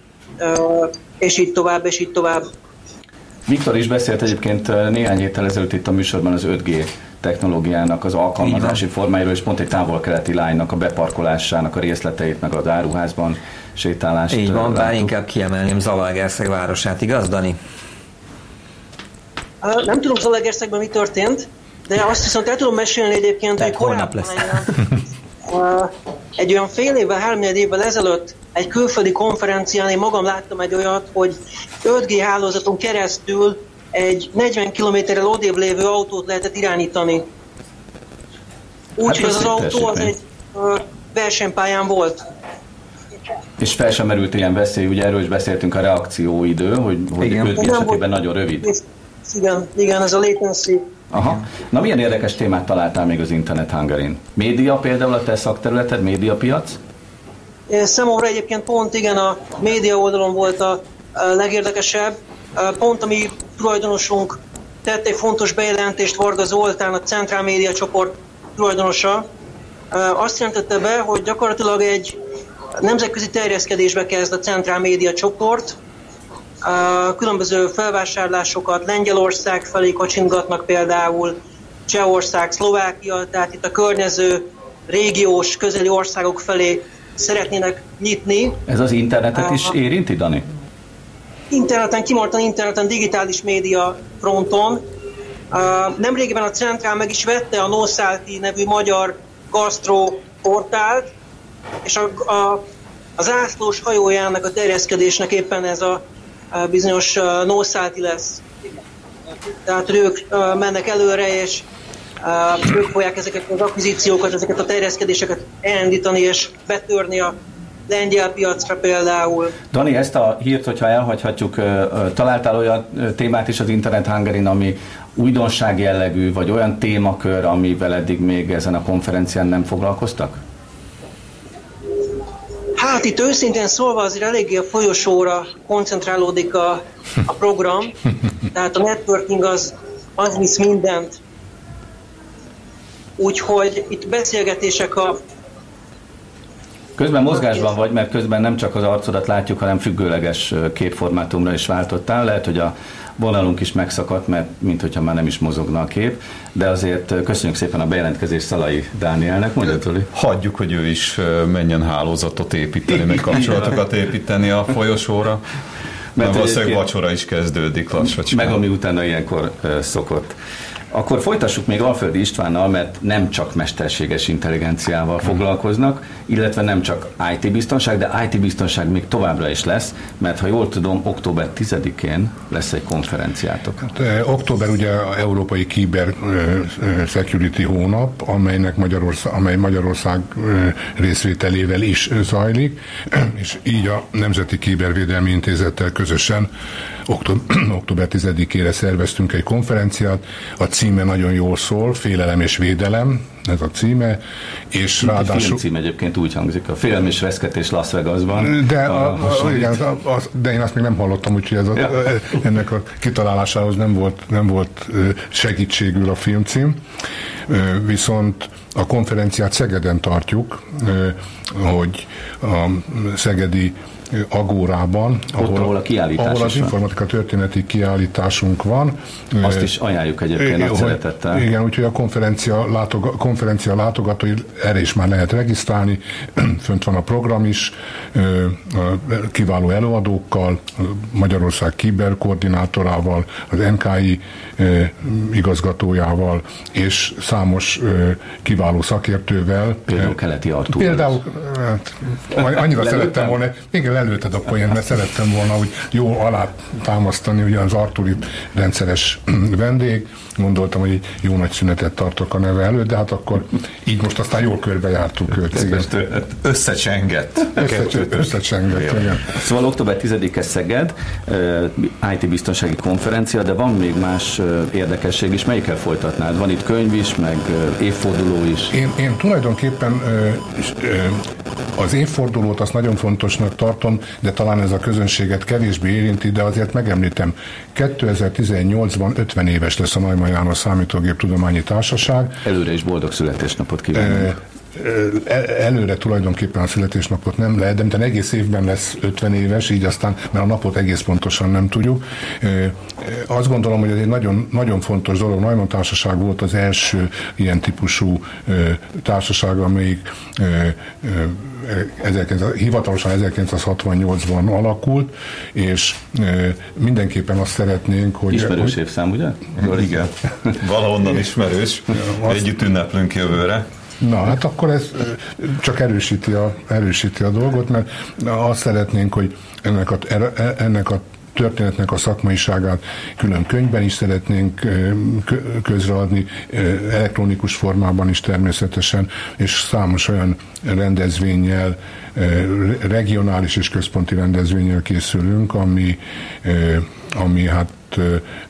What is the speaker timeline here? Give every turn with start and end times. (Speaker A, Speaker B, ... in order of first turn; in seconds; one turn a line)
Speaker A: 0.4-2.4
Speaker B: 3.5-15.1
Speaker C: 14.3-17.6
Speaker A: 19.6-24.7
Speaker C: 23.6-24.7
Speaker A: 25.5-37.2
Speaker A: 39.0-42.2
Speaker B: 39.1-40.1
Speaker B: 43.6-48.7
Speaker A: 47.6-48.1
Speaker A: 48.6-50.9
Speaker B: 51.1-56.8
Speaker A: 57.7-69.2
Speaker A: 69.9-72.2
Speaker A: 72.8-75.8
Speaker A: 76.6-81.3
Speaker A: 81.9-88.6
Speaker B: 88.7-90.5
Speaker A: 89.3-89.7
Speaker A: 91.5-94.8
Speaker A: 95.5-101.1
Speaker A: 101.8-102.6
Speaker A: 103.2-106.0
Speaker A: 106.5-108.5
Speaker A: 109.7-111.7
Speaker A: 112.2-117.3
Speaker A: 117.9-119.5
Speaker B: 119.7-130.4
Speaker A: 132.8-138.0
Speaker A: 138.5-141.2
Speaker A: 143.2-145.2
Speaker B: 147.0-160.1
Speaker D: 160.1-165.4
Speaker B: 162.9-163.8
Speaker B: 166.2-166.9
Speaker D: 166.2-168.6
Speaker B: 168.0-170.3
Speaker B: 170.9-183.8
Speaker E: 183.8-196.5
Speaker E: 197.1-204.2
Speaker E: 204.7-205.6
Speaker B: 205.0-209.8
Speaker E: 208.4-216.8
Speaker E: 217.5-229.7
Speaker B: 225.4-226.8
Speaker B: 229.4-231.4
Speaker E: 230.4-250.2
Speaker B: 249.9-251.2
Speaker E: 250.7-265.9
Speaker D: 266.1-268.3
Speaker E: 267.6-269.2
Speaker B: 269.2-278.8
Speaker E: 278.7-281.2
Speaker E: 281.8-292.4
Speaker B: 292.4-294.4
Speaker E: 293.9-318.8
Speaker B: 318.3-320.1
Speaker D: 319.6-323.6
Speaker E: 324.0-348.2